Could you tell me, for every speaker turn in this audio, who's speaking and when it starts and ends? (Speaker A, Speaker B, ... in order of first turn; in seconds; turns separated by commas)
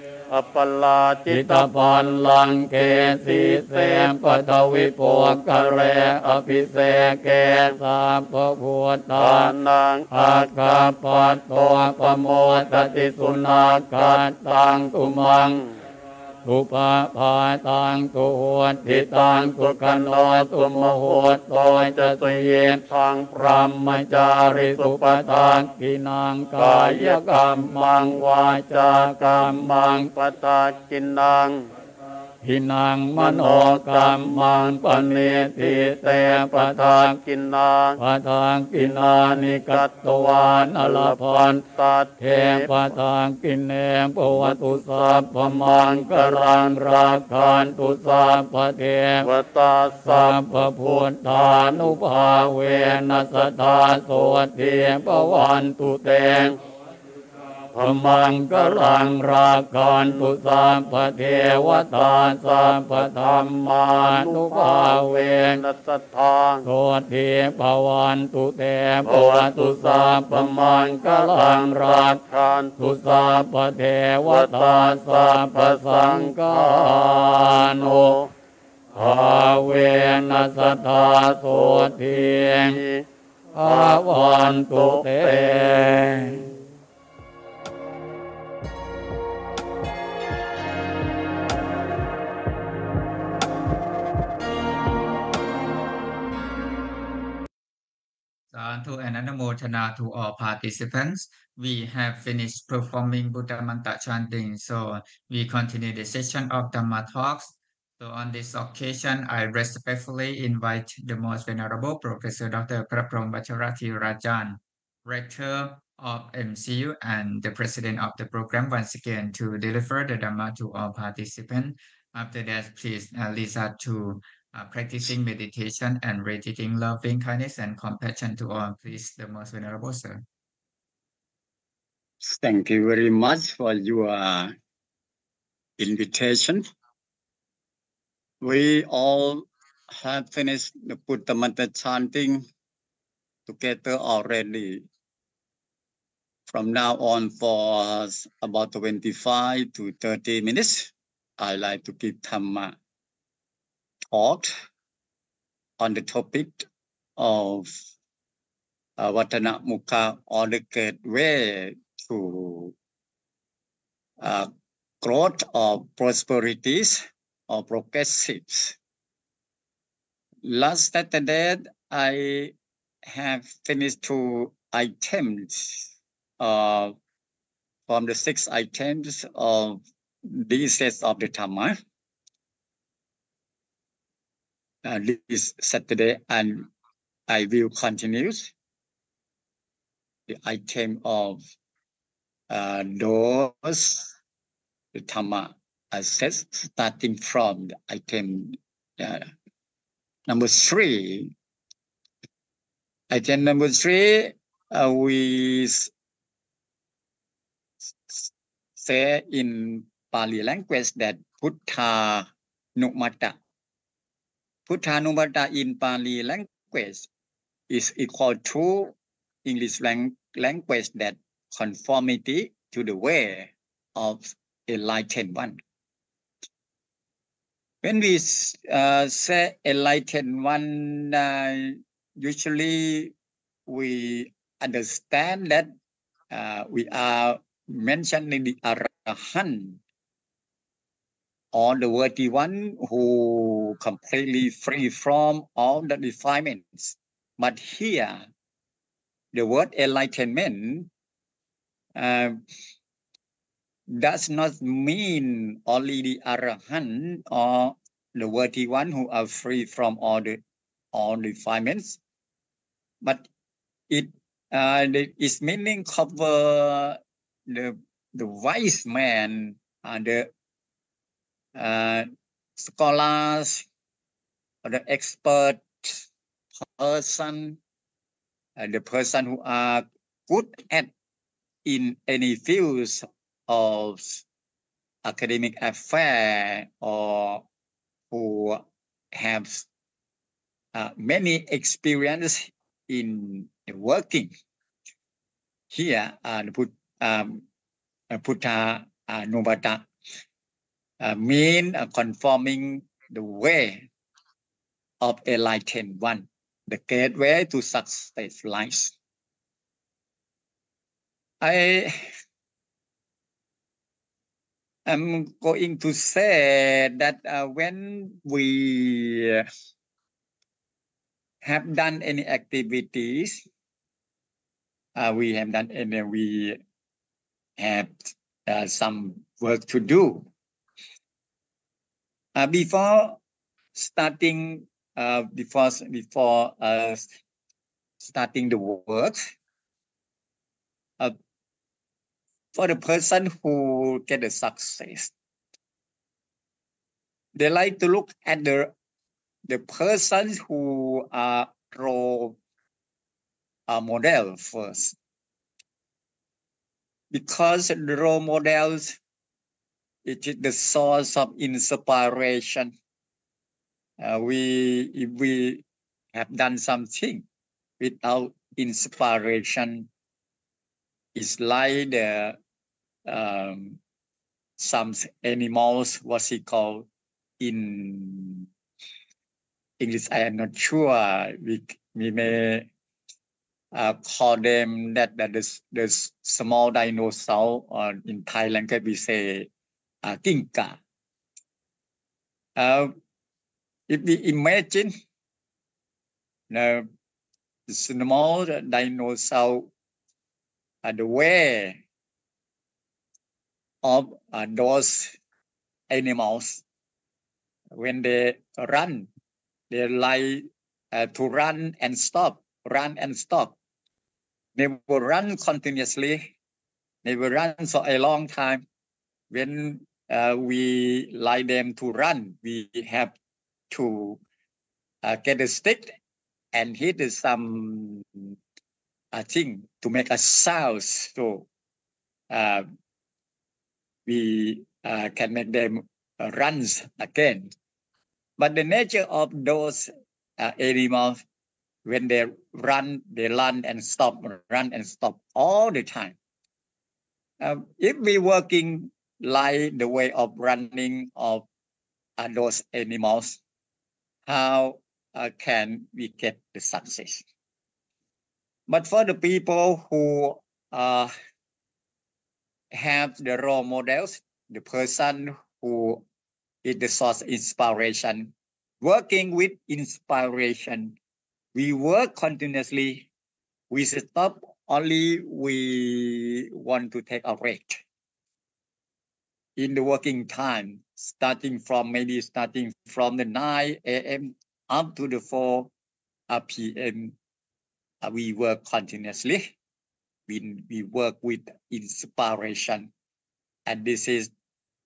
Speaker A: 0.3-4.2, Speaker B: 1.3-9.5, Speaker A: 4.7-7.8, Speaker A: 9.1-15.7, Speaker B: 10.1-15.6, Speaker B: 16.4-22.8, Speaker A: 18.9-25.6, Speaker B: 23.4-30.1, Speaker A: 26.6-31.6, Speaker B: 32.4-37.1, Speaker A: 33.2-38.0, Speaker B: 38.0-41.6, Speaker A: 39.0-42.9, Speaker B: 42.2-49.3, Speaker A: 44.3-47.7, Speaker A: 49.2-53.2, Speaker B: 50.0-56.5, Speaker A: 55.1-56.5, Speaker A: 57.7-60.6, Speaker B: 57.8-65.6, Speaker A: 61.7-66.7, Speaker B: 66.6-72.2, Speaker A: 69.0-72.9, Speaker B: 72.8-78.2, Speaker A: 74.2-78.3, Speaker B: 79.0-82.8, Speaker A: 79.0-79.5, Speaker A: 80.3-81.9, Speaker A: 82.6-83.0, Speaker B: 83.5-86.5, Speaker A: 83.6-85.7, Speaker C: 98.5-130.2, Speaker D: 132.2-134.5, Speaker D: 135.8-136.6, Speaker D: 138.4-142.4, Speaker D: 143.5-144.9, Speaker D: 146.5-152.7, Speaker D: 154.1-154.5, Speaker D: 155.8-157.7, Speaker D: 159.0-162.7, Speaker D: 164.2-164.5, Speaker D: 165.0-168.8, Speaker D: 170.4-172.5, Speaker D: 173.0-175.9, Speaker D: 176.4-176.9, Speaker D: 177.9-181.8, Speaker D: 184.8-186.7, Speaker D: 187.3-188.5, Speaker D: 190.3-191.4, Speaker D: 192.5-194.1, Speaker D: 194.9-199.3, Speaker D: 200.3-201.3, Speaker D: 203.1-205.9, Speaker D: 207.9-213.4, Speaker D: 214.7-217.1, Speaker D: 217.7-218.9, Speaker D: 219.4-225.6, Speaker D: 227.8-233.1, Speaker D: 233.7-235.7, Speaker D: 236.3-239.8, Speaker D: 241.5-248.2, Speaker D: 249.3-250.9, Speaker D: 251.9-252.4, Speaker D: 253.9-260.4, Speaker D: 260.9-262.0, Speaker D: 263.9-270.3, Speaker D: 271.6-273.6, Speaker D: 274.6-276.0, Speaker D: 276.6-277.6, Speaker D: 278.6-280.9, Speaker D: 281.6-284.2, Speaker D: 285.0-287.4, Speaker D: 288.1-288.6, Speaker D: 289.1-289.7, Speaker D: 290.7-294.3, Speaker D: 295.7-297.4, Speaker D: 298.1-299.9, Speaker D: 301.0-303.9, Speaker D: 305.0-308.9, Speaker D: 311.4-312.1, Speaker D: 314.9-319.5, Speaker D: 321.4-323.4, Speaker D: 324.9-326.6, Speaker D: 327.6-330.2, Speaker D: 332.3-333.2, Speaker D: 333.7-337.1, Speaker D: 338.0-339.2, Speaker D: 342.5-345.1, Speaker D: 347.3-348.7, Speaker D: 349.5-352.4, Speaker D: 353.7-354.9, Speaker D: 357.1-359.0, Speaker D: 360.0-362.7, Speaker D: 364.0-365.6, Speaker D: 366.1-367.2, Speaker D: 367.8-369.9, Speaker D: 371.1-372.4, Speaker D: 373.1-373.8, Speaker D: 374.6-376.8, Speaker D: 377.4-378.5, Speaker D: 379.8-382.7, Speaker D: 383.7-389.5, Speaker D: 390.0-390.8, Speaker D: 392.6-392.9, Speaker D: 393.9-394.9, Speaker D: 396.5-396.9, Speaker D: 397.7-399.7, Speaker D: 400.8-401.8, Speaker D: 403.8-405.1, Speaker D: 405.9-406.6, Speaker D: 407.7-409.1, Speaker D: 409.7-413.5, Speaker D: 414.6-416.2, Speaker D: 417.0-418.6, Speaker D: 419.3-423.1, Speaker D: 423.7-424.2, Speaker D: 425.0-425.9, Speaker D: 426.5-428.3, Speaker D: 429.1-431.4, Speaker D: 432.3-432.6, Speaker D: 434.1-437.5, Speaker D: 438.4-441.2, Speaker D: 441.8-446.1, Speaker D: 447.4-451.4, Speaker D: 452.2-453.4, Speaker D: 454.3-457.2, Speaker D: 458.7-461.1, Speaker D: 462.7-466.0, Speaker D: 466.6-470.9, Speaker D: 471.5-473.1, Speaker D: 473.7-477.8, Speaker D: 479.6-485.7, Speaker D: 486.3-487.1, Speaker D: 488.0-489.5, Speaker D: 490.3-492.9, Speaker D: 493.7-494.3